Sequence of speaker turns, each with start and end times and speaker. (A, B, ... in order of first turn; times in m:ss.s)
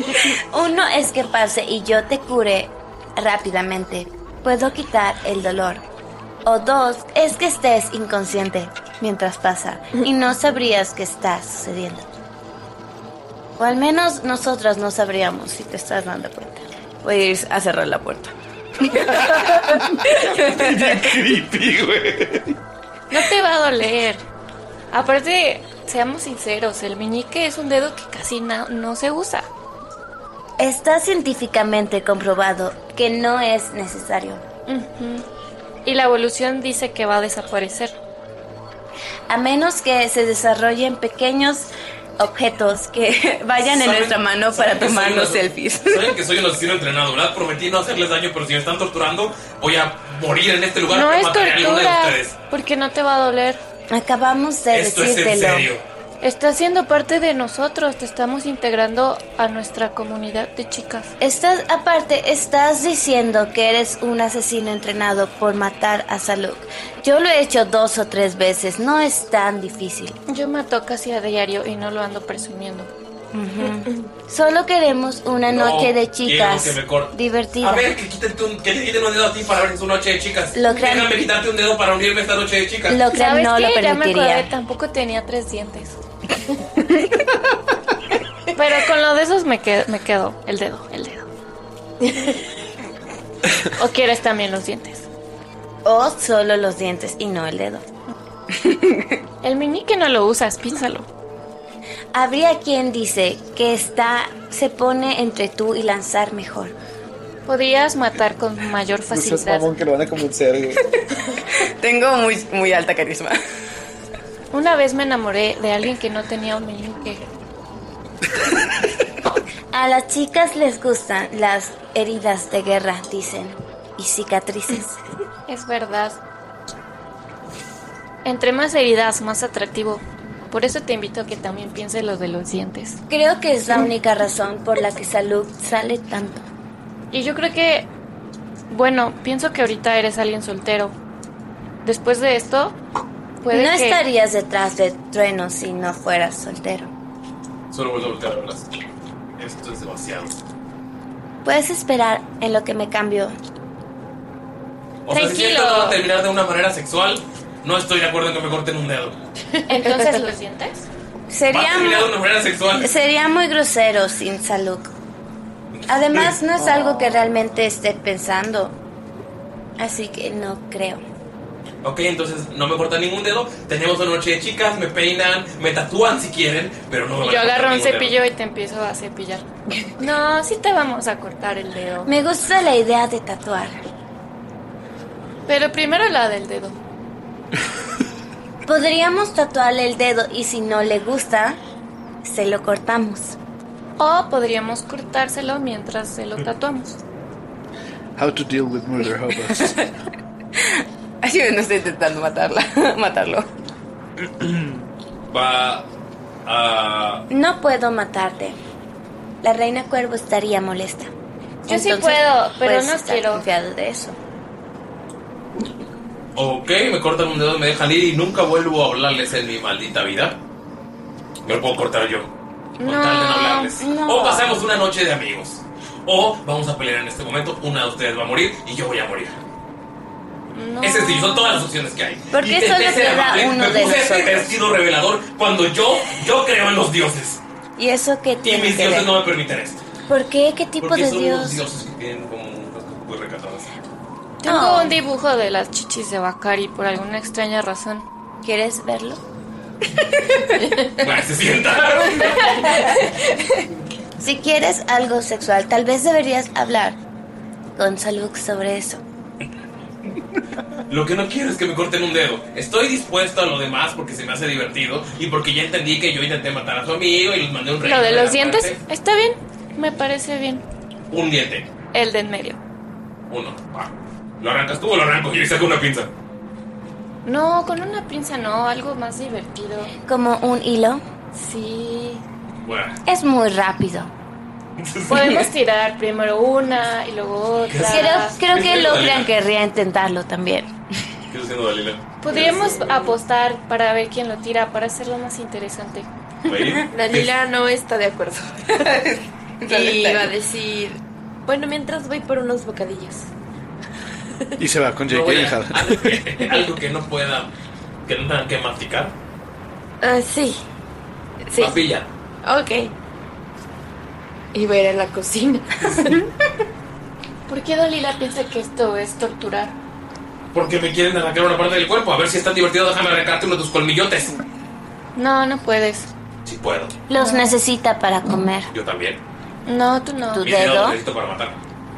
0:00.5-0:05.8 A
0:06.4-0:12.1 A
0:13.6-0:16.6 A
0:17.0-0:21.1 B
0:18.9-0:22.6 C
0:23.1-0:24.2 D
0:24.9-0:29.5 D
0:30.6-0:34.4 A
0:34.7-0:35.2 D
0:35.8-0:37.9 D
0:39.3-0:43.0 A
0:42.9-0:46.1 B
0:43.6-0:52.4 E
0:50.9-0:53.6 D
0:53.9-0:55.7 A
0:54.7-0:55.8 E
0:56.2-1:01.1 D
1:01.2-1:10.2 A
1:10.3-1:12.9 D
1:13.3-1:17.9 A
1:13.6-1:14.0 D
1:15.5-1:23.0 E
1:20.5-1:21.1 A
1:22.9-1:24.5 A
1:23.0-1:26.0 D
1:28.6-1:31.3 D
1:33.8-1:35.0 D
1:35.8-1:37.8 A
1:38.6-1:39.2 B
1:39.4-1:41.1 D
1:42.1-1:46.7 A
1:47.4-1:49.7 D
1:49.1-1:50.8 C
1:51.6-1:53.4 B
1:54.5-1:57.2 D
1:59.7-2:04.9 A
2:05.5-2:06.2 D
2:08.2-2:13.0 D
2:13.1-2:16.4 A
2:17.1-2:17.9 D
2:18.7-2:20.9 D
2:21.8-2:22.8 D
2:23.4-2:24.0 D
2:23.5-2:26.9 A
2:27.7-2:28.7 E
2:29.4-2:30.4 E
2:31.4-2:33.4 A
2:35.0-2:39.2 E
2:35.1-2:36.0 D
2:39.7-2:40.9 D
2:41.3-2:42.1 A
2:41.5-2:42.9 E
2:42.7-2:44.9 A
2:45.7-2:46.3 E
2:45.9-2:48.8 A
2:49.8-2:51.0 A
2:51.8-2:58.2 E
2:57.2-2:59.4 D
3:00.0-3:02.1 D
3:02.0-3:03.8 A
3:05.5-3:06.8 D
3:08.6-3:11.6 A
3:12.2-3:13.4 A
3:14.0-3:17.0 D
3:18.2-3:19.8 C
3:19.5-3:19.8 B
3:20.6-3:23.5 B
3:24.4-3:24.8 C
3:25.3-3:25.9 E
3:26.4-3:27.2 E
3:27.3-3:28.6 A
3:29.4-3:31.1 A
3:31.7-3:33.5 D
3:31.7-3:34.2 A
3:36.4-3:40.4 E
3:41.4-3:49.4 E
3:42.8-3:43.7 D
3:43.8-3:44.5 A
3:50.5-3:51.7 D
3:50.8-3:57.4 E
3:52.3-3:54.6 A
3:57.8-3:59.1 A
3:58.4-3:59.8 E
4:00.1-4:01.6 A
4:00.8-4:03.7 E
4:04.4-4:05.0 A
4:04.4-4:08.0 D
4:08.4-4:09.2 A
4:11.0-4:12.8 E
4:14.2-4:17.0 A
4:17.8-4:19.0 A
4:20.9-4:28.8 E
4:27.8-4:30.6 D
4:31.1-4:31.7 E
4:31.9-4:32.6 D
4:33.3-4:36.1 E
4:37.2-4:39.9 D
4:40.0-4:41.0 A
4:41.4-4:42.2 D
4:42.6-4:43.0 E
4:43.0-4:44.1 A
4:44.8-4:45.4 E
4:45.1-4:48.8 D
4:47.7-4:49.3 E
4:47.8-4:50.7 A
4:51.3-4:52.6 E
4:52.2-4:56.1 D
4:52.3-4:53.0 F
4:56.5-4:57.3 E
4:56.9-4:58.9 F
4:58.7-5:00.3 B
4:59.6-5:03.3 F
5:04.6-5:06.2 C
5:05.1-5:07.5 E
5:08.0-5:09.1 E
5:10.0-5:10.6 F
5:11.5-5:11.8 F
5:11.6-5:12.1 E
5:12.4-5:12.9 F
5:14.5-5:16.1 F
5:17.5-5:19.7 D
5:20.5-5:24.4 E
5:25.1-5:26.1 D
5:26.4-5:27.0 E
5:27.1-5:28.7 A
5:27.1-5:27.6 D
5:28.7-5:29.2 E
5:29.6-5:30.5 D
5:30.3-5:31.0 A
5:30.4-5:31.6 E